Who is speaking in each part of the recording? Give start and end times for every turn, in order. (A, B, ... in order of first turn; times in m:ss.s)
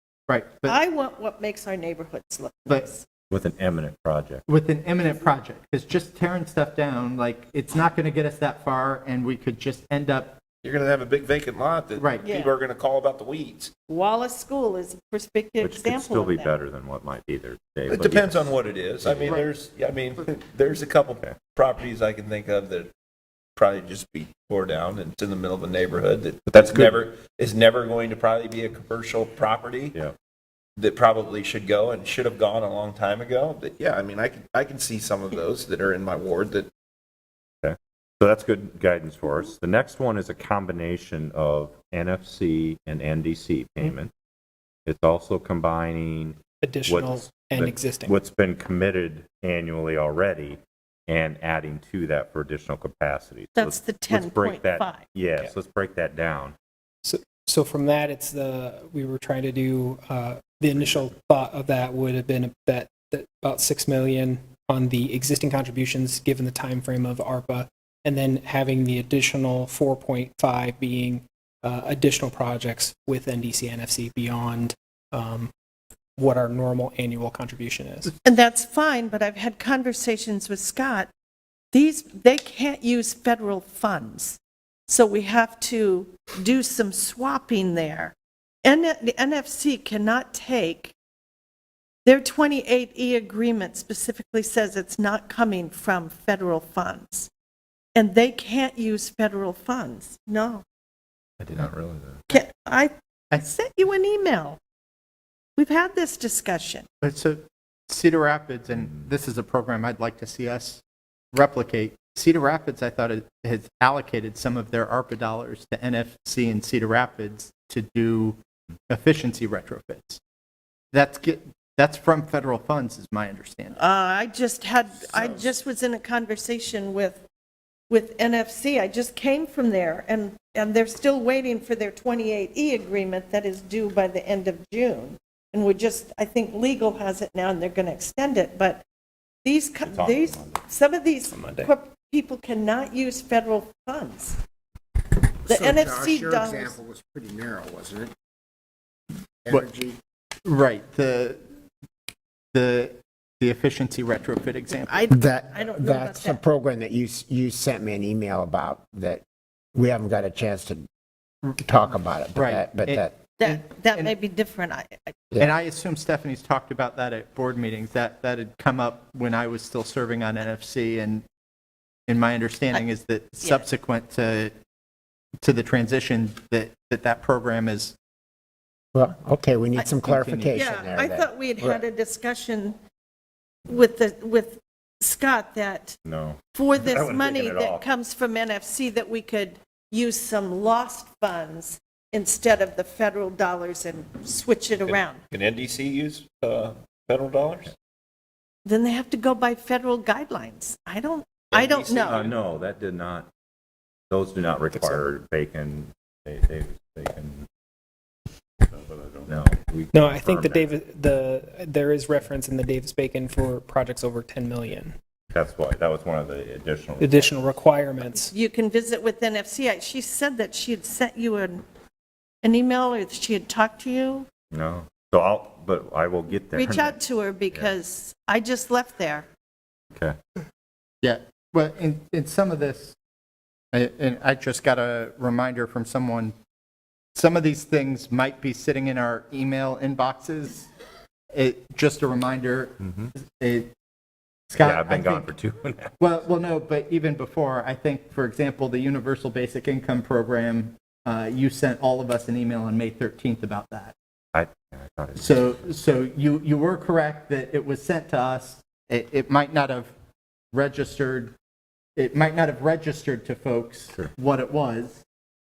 0:00.3-0:00.8 A
0:00.7-0:03.1 B
0:03.3-0:04.4 C
0:04.5-0:10.4 A
0:10.6-0:13.7 D
0:12.0-0:12.2 A
0:12.2-0:12.5 B
0:13.9-0:16.5 B
0:15.6-0:19.4 C
0:17.9-0:22.9 D
0:23.6-0:30.0 D
0:30.8-0:36.7 D
0:37.6-0:44.1 C
0:44.9-0:56.6 C
0:46.6-0:48.2 E
0:53.6-0:55.1 B
0:57.0-1:15.5 E
1:00.8-1:01.1 C
1:16.2-1:18.1 E
1:18.2-1:21.1 B
1:21.7-1:31.0 B
1:32.1-1:37.3 B
1:38.0-1:40.6 B
1:41.4-1:42.2 D
1:42.3-1:44.6 B
1:45.6-1:46.9 B
1:47.0-1:50.8 A
1:51.3-1:58.4 A
1:58.9-2:00.2 A
2:00.9-2:03.8 A
2:03.8-2:07.2 B
2:05.1-2:05.4 D
2:07.9-2:18.8 B
2:19.4-2:24.4 B
2:19.9-2:20.6 C
2:21.3-2:21.7 D
2:25.5-2:26.8 B
2:25.5-2:28.1 F
2:29.4-2:30.0 F
2:30.4-2:31.4 A
2:32.5-2:35.1 A
2:34.7-2:36.4 B
2:35.1-2:40.9 F
2:41.6-2:43.2 F
2:42.3-2:44.1 A
2:43.4-2:45.2 B
2:45.4-2:51.2 A
2:52.1-2:54.5 A
2:53.4-2:53.7 B
2:55.4-2:58.0 A
2:58.9-3:01.8 F
2:59.8-3:00.7 A
3:00.5-3:02.8 B
3:03.7-3:06.0 B
3:06.0-3:07.9 C
3:06.5-3:15.2 B
3:14.8-3:17.7 D
3:18.6-3:22.3 B
3:21.5-3:22.4 D
3:22.1-3:23.3 C
3:24.1-3:27.5 C
3:24.7-3:25.0 E
3:28.7-3:30.7 C
3:29.9-3:35.0 E
3:35.3-3:37.4 C
3:37.0-3:38.3 E
3:38.2-3:41.6 B
3:42.4-3:44.3 B
3:44.5-3:47.7 C
3:46.5-3:49.3 B
3:51.0-3:53.0 A
3:53.7-3:56.3 A
3:57.2-4:00.7 A
4:01.3-4:03.7 A
4:02.8-4:03.1 C
4:04.5-4:05.3 A
4:04.6-4:05.9 C
4:06.0-4:14.0 A
4:14.3-4:15.5 C
4:15.2-4:19.9 A
4:20.5-4:21.3 A
4:22.0-4:25.0 A